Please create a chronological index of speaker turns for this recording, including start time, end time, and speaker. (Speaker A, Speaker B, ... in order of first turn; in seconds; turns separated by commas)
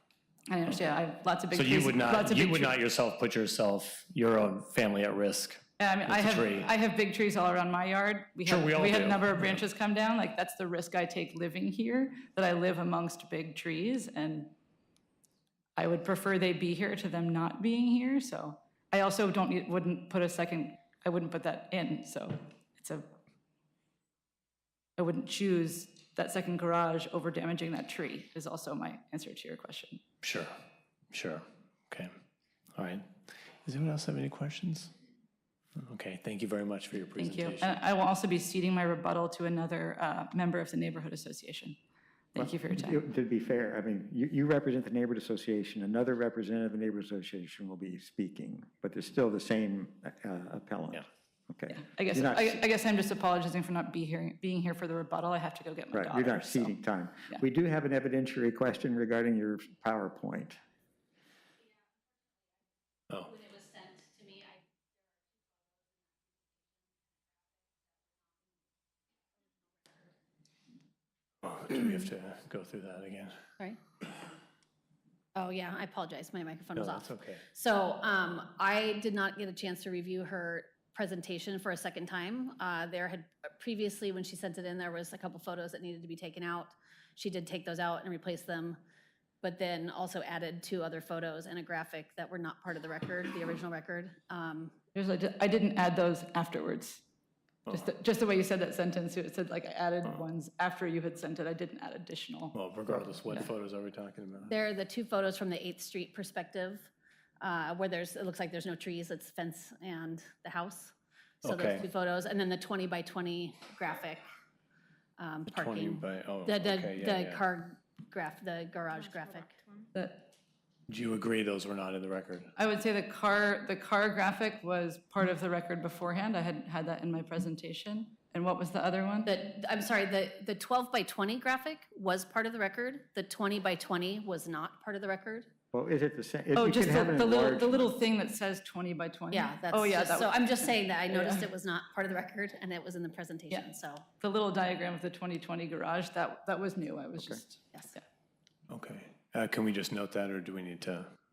Speaker A: 0.5-2.8, Speaker B: 1.5-6.7, Speaker A: 5.8-14.5, Speaker B: 8.4-9.6, Speaker A: 15.8-23.1, Speaker A: 25.0-30.0, Speaker B: 30.2-30.5, Speaker B: 31.1-32.1, Speaker B: 32.8-33.1, Speaker B: 33.6-34.9, Speaker B: 35.8-37.8, Speaker A: 37.1-41.8, Speaker A: 42.3-43.0, Speaker C: 42.4-52.6, Speaker A: 51.7-56.7, Speaker C: 55.9-60.6, Speaker B: 63.1-63.4, Speaker D: 63.4-64.4, Speaker B: 71.4-73.3, Speaker D: 75.3-88.8, Speaker B: 76.8-77.4, Speaker D: 89.4-94.7, Speaker A: 94.9-97.0, Speaker B: 97.7-97.9, Speaker A: 97.7-102.5, Speaker B: 102.5-104.5, Speaker D: 104.5-114.2, Speaker B: 111.4-111.9, Speaker D: 115.2-119.6, Speaker B: 115.5-117.4, Speaker A: 119.9-120.3, Speaker B: 120.9-122.5, Speaker A: 122.5-129.3, Speaker D: 129.2-135.5, Speaker C: 135.7-138.0, Speaker A: 136.5-141.4, Speaker D: 139.3-144.0, Speaker A: 143.5-148.0, Speaker B: 148.7-151.1